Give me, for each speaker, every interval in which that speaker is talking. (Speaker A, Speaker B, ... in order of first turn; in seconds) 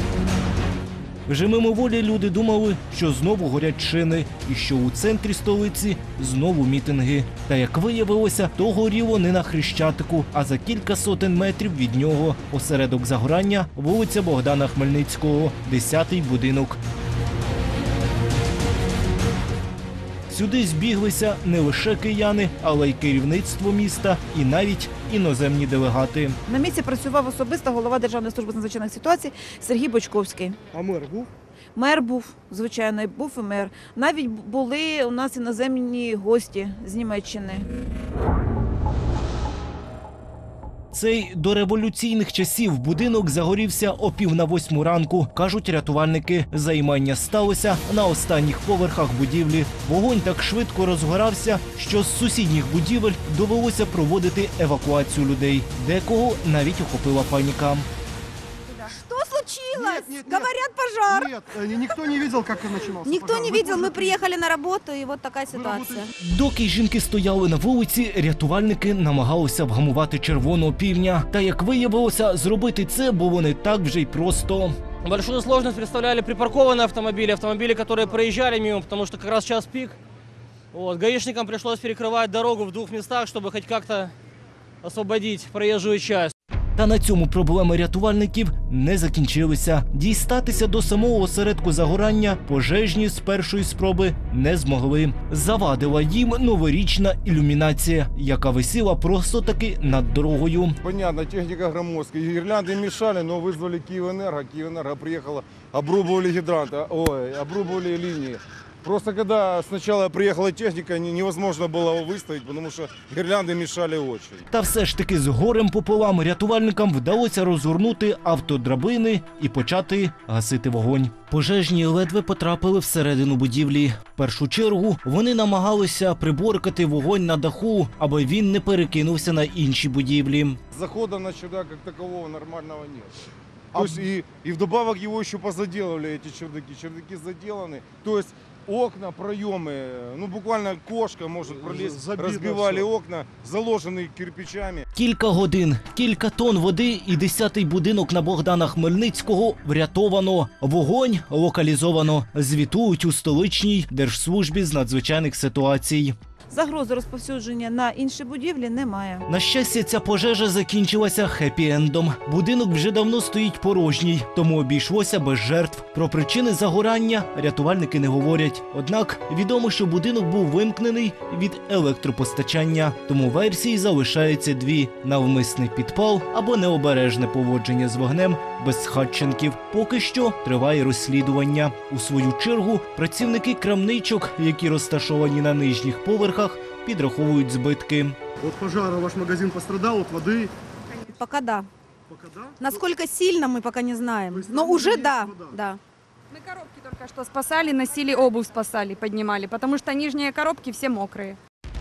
Speaker A: 1.3-16.8, 20.3-26.4, 40.9-57.9, 66.2-74.8, 86.8-100.8, 114.5-130.6, 144.9-156.2, 159.3-188.2
Speaker B: 26.5-30.6, 31.8-37.7, 156.5-159.3
Speaker C: 30.7-31.3, 59.7-60.5, 61.2-64.2, 65.5-66.0, 141.5-142.9, 188.4-190.5, 192.1-192.5, 194.3-195.6
Speaker D: 58.7-61.3, 62.8-66.1, 191.1-191.7, 192.6-195.8
Speaker E: 75.0-80.0, 80.7-84.1, 84.8-86.3
Speaker F: 100.8-114.5, 130.7-133.1, 133.7-144.9
Speaker G: 196.3-201.4